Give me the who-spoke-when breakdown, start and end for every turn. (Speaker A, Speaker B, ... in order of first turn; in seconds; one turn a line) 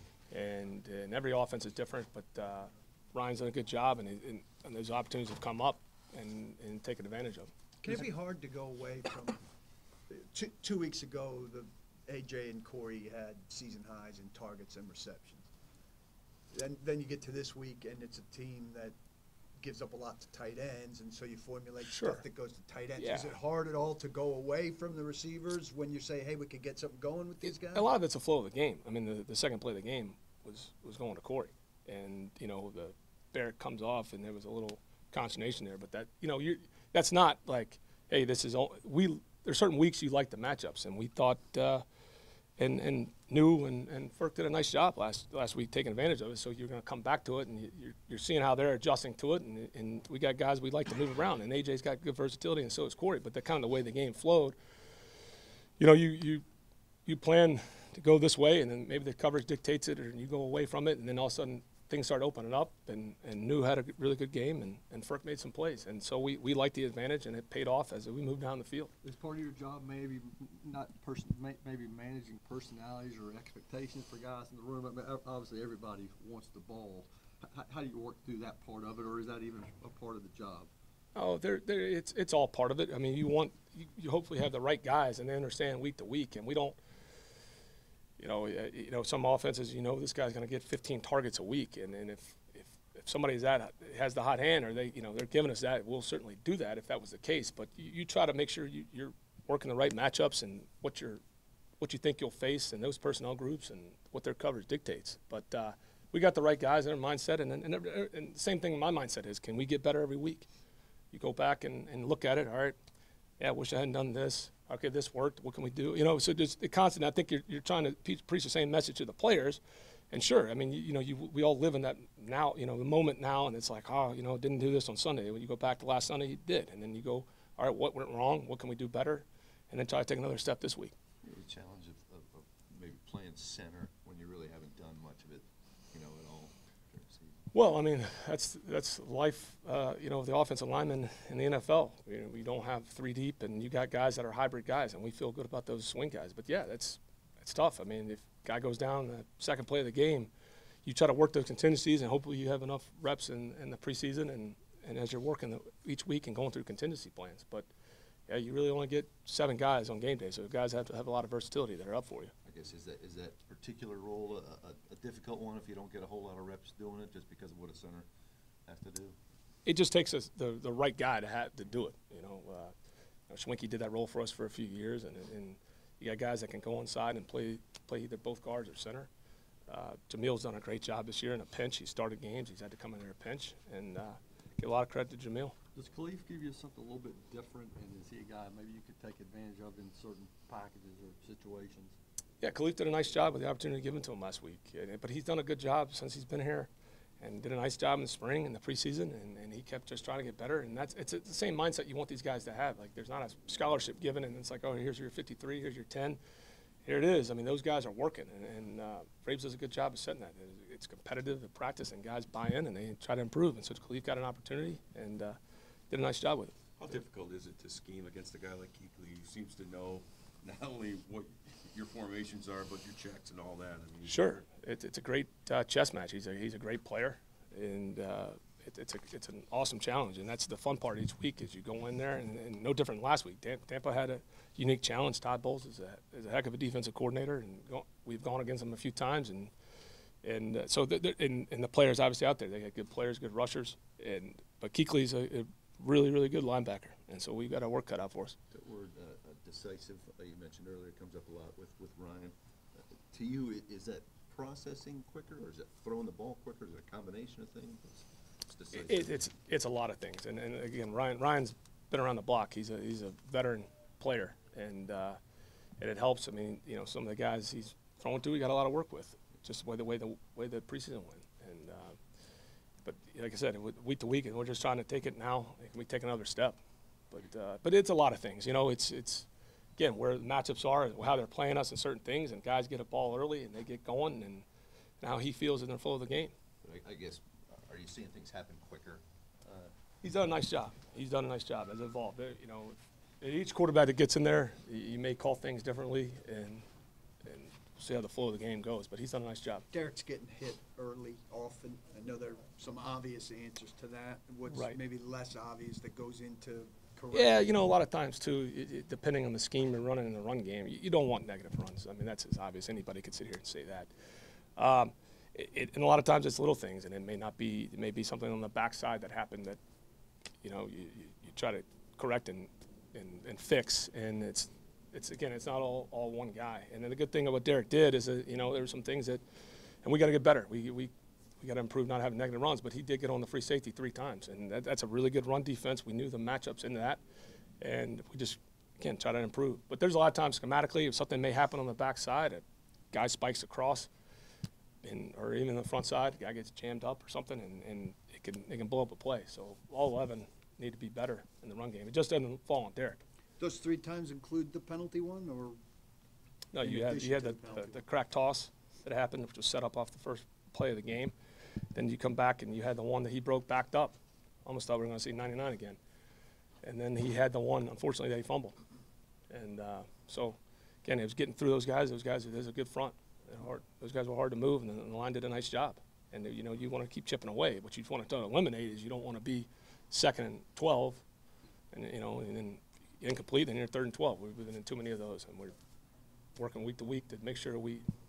Speaker A: 0.3-8.0
Speaker B: 7.8-9.4
Speaker B: 10.1-15.5
Speaker B: 16.5-18.9
Speaker B: 19.6-27.9
Speaker A: 21.8-22.2
Speaker A: 23.0-23.3
Speaker A: 27.4-41.8
Speaker A: 42.6-54.5
Speaker A: 55.8-56.4
Speaker A: 57.0-68.9
Speaker C: 69.0-80.7
Speaker A: 81.1-86.8
Speaker A: 88.2-101.2
Speaker A: 101.8-110.5
Speaker A: 111.1-112.8
Speaker A: 113.4-130.9
Speaker D: 131.2-137.4
Speaker A: 137.5-150.3
Speaker A: 150.8-157.7
Speaker A: 158.3-162.3
Speaker D: 162.4-168.1
Speaker D: 168.7-169.2
Speaker A: 169.6-172.7
Speaker A: 173.3-179.1
Speaker A: 179.7-185.5
Speaker C: 185.7-192.0
Speaker A: 192.4-196.7
Speaker A: 197.2-206.2
Speaker A: 206.8-215.4
Speaker A: 215.9-216.5
Speaker E: 216.8-224.2
Speaker A: 224.1-239.5
Speaker A: 240.2-248.3
Speaker D: 248.5-259.1
Speaker A: 258.7-265.2
Speaker A: 265.8-272.0
Speaker A: 272.8-276.6
Speaker A: 277.1-284.4
Speaker A: 285.0-286.3
Speaker D: 286.6-289.7
Speaker A: 290.0-296.6
Speaker A: 297.2-299.7
Speaker B: 299.7-307.5
Speaker A: 304.5-304.8
Speaker A: 307.1-313.9
Speaker A: 314.6-319.6
Speaker A: 320.4-329.2
Speaker A: 329.8-337.0
Speaker A: 337.6-343.9
Speaker A: 344.8-353.0
Speaker B: 353.4-355.6
Speaker A: 356.5-361.1
Speaker B: 356.6-357.8
Speaker A: 361.7-365.8
Speaker A: 366.6-368.6
Speaker A: 369.3-381.0
Speaker A: 381.7-385.5
Speaker A: 386.4-387.8